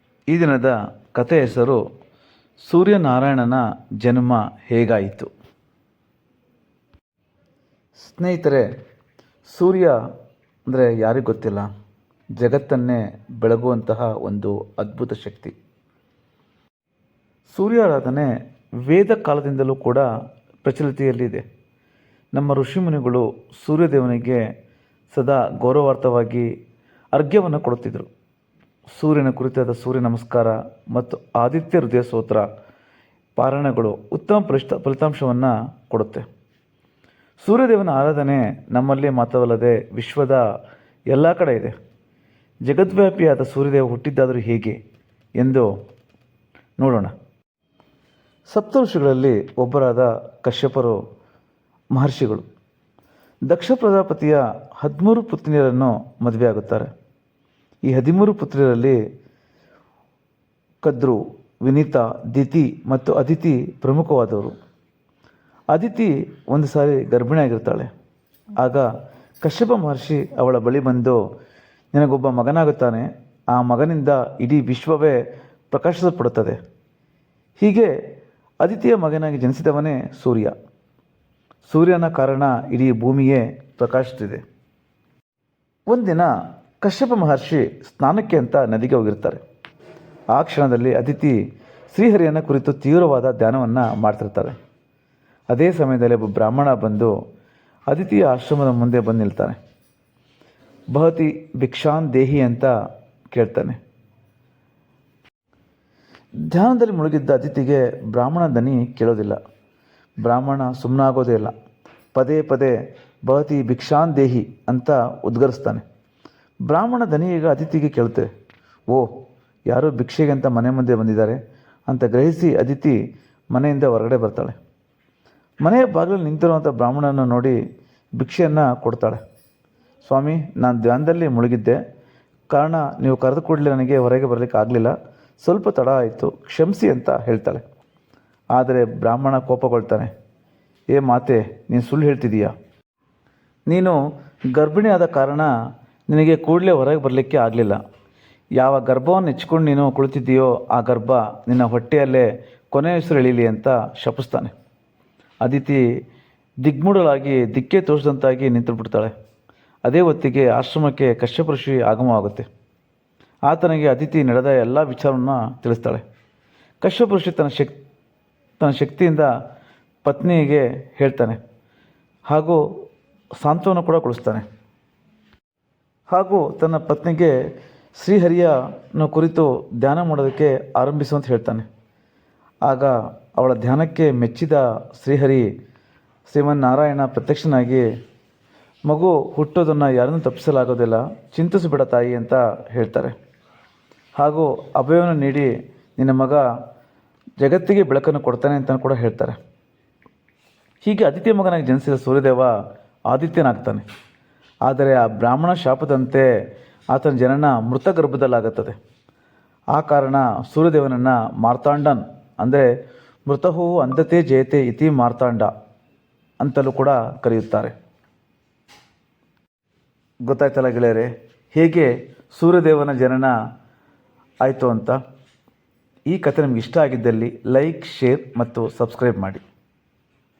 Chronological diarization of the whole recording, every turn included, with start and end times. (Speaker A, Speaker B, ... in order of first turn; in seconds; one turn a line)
Speaker A: 0.3-1.8
Speaker A: 2.6-5.3
Speaker A: 8.0-8.7
Speaker A: 9.5-10.0
Speaker A: 10.7-11.7
Speaker A: 12.4-15.6
Speaker A: 17.5-18.3
Speaker A: 18.9-20.1
Speaker A: 20.6-21.4
Speaker A: 22.3-24.4
Speaker A: 25.1-26.5
Speaker A: 27.1-28.1
Speaker A: 28.9-32.5
Speaker A: 33.4-36.3
Speaker A: 37.4-40.4
Speaker A: 41.1-41.7
Speaker A: 42.6-44.8
Speaker A: 45.4-45.7
Speaker A: 46.8-47.1
Speaker A: 48.5-51.0
Speaker A: 51.9-52.5
Speaker A: 53.5-56.9
Speaker A: 57.9-59.0
Speaker A: 60.8-64.5
Speaker A: 65.7-67.9
Speaker A: 68.6-68.9
Speaker A: 69.4-71.2
Speaker A: 71.9-75.2
Speaker A: 75.7-76.6
Speaker A: 77.6-77.9
Speaker A: 78.6-80.5
Speaker A: 81.7-84.4
Speaker A: 85.9-86.3
Speaker A: 86.8-89.4
Speaker A: 90.3-91.4
Speaker A: 91.9-94.6
Speaker A: 95.5-97.1
Speaker A: 97.9-99.6
Speaker A: 100.9-102.7
Speaker A: 103.3-103.8
Speaker A: 106.5-109.4
Speaker A: 110.2-111.5
Speaker A: 112.2-112.8
Speaker A: 113.3-115.8
Speaker A: 116.7-118.3
Speaker A: 119.7-123.0
Speaker A: 123.5-124.6
Speaker A: 125.6-127.6
Speaker A: 128.2-129.2
Speaker A: 130.0-131.8
Speaker A: 132.5-137.6
Speaker A: 138.6-140.1
Speaker A: 140.9-142.5
Speaker A: 143.7-144.0
Speaker A: 144.6-145.5
Speaker A: 146.1-147.8
Speaker A: 148.6-154.5
Speaker A: 155.4-155.8
Speaker A: 156.6-159.1
Speaker A: 159.8-162.5
Speaker A: 163.5-166.0
Speaker A: 166.8-167.7
Speaker A: 168.6-169.3
Speaker A: 170.1-171.4
Speaker A: 172.3-172.6
Speaker A: 173.4-174.4
Speaker A: 176.1-177.3
Speaker A: 178.0-181.7
Speaker A: 182.7-185.5
Speaker A: 186.3-187.9
Speaker A: 188.9-193.2
Speaker A: 194.2-196.4
Speaker A: 197.4-199.4
Speaker A: 200.8-202.5
Speaker A: 203.1-203.8
Speaker A: 204.7-206.3
Speaker A: 206.9-208.8
Speaker A: 209.8-212.7
Speaker A: 213.3-215.5
Speaker A: 216.4-217.7
Speaker A: 220.2-223.3
Speaker A: 224.4-225.0
Speaker A: 226.1-229.4